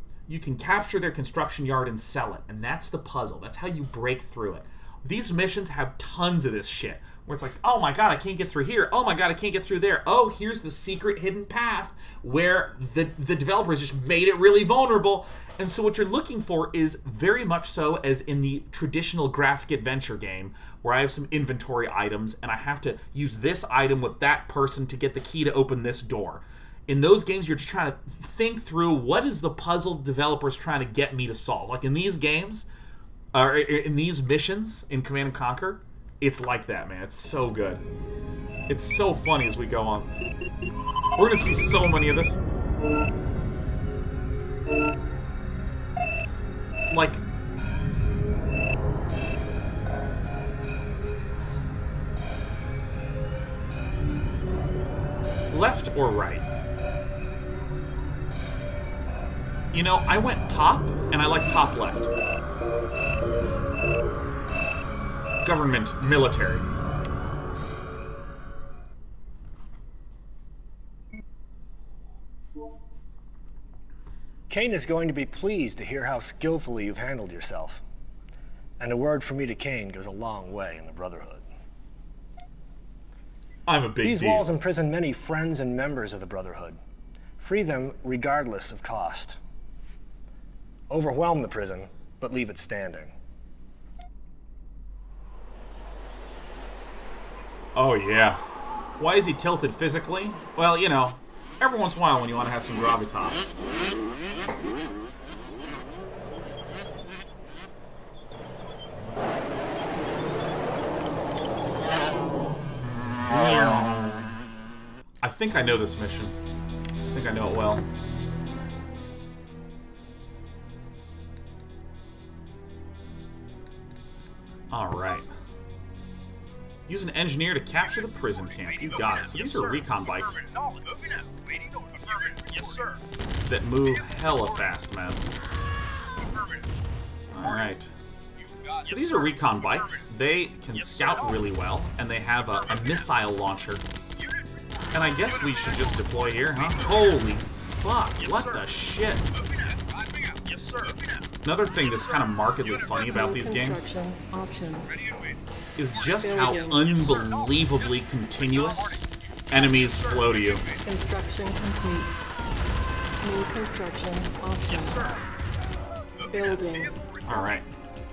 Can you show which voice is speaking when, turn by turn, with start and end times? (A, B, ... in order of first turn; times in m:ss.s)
0:00.3-0:32.7 A
0:33.3-0:37.8 A
0:38.7-0:40.1 A
0:41.2-0:42.4 A
0:46.9-0:47.2 A
0:55.5-0:56.4 A
0:59.7-1:02.1 A
1:05.4-1:06.7 A
1:14.5-1:17.8 B
1:18.8-1:21.5 B
1:23.7-1:24.5 A
1:24.0-1:26.8 B
1:27.4-1:29.4 B
1:30.9-1:33.1 B
1:37.8-1:38.4 A
1:39.0-1:43.5 A
1:53.2-1:54.3 A
1:55.2-1:56.3 A
1:57.1-1:57.8 A
2:04.7-2:05.3 A
2:06.9-2:10.5 A
2:13.5-2:15.2 A
2:17.3-2:17.9 A
2:18.8-2:23.8 A
2:24.9-2:29.2 A
2:31.4-2:33.9 A
2:33.1-2:35.0 C
2:35.8-2:40.6 A
2:36.2-2:36.8 C
2:40.8-2:42.1 C
2:43.2-2:45.2 C
2:46.3-2:47.0 C
2:47.3-2:47.7 A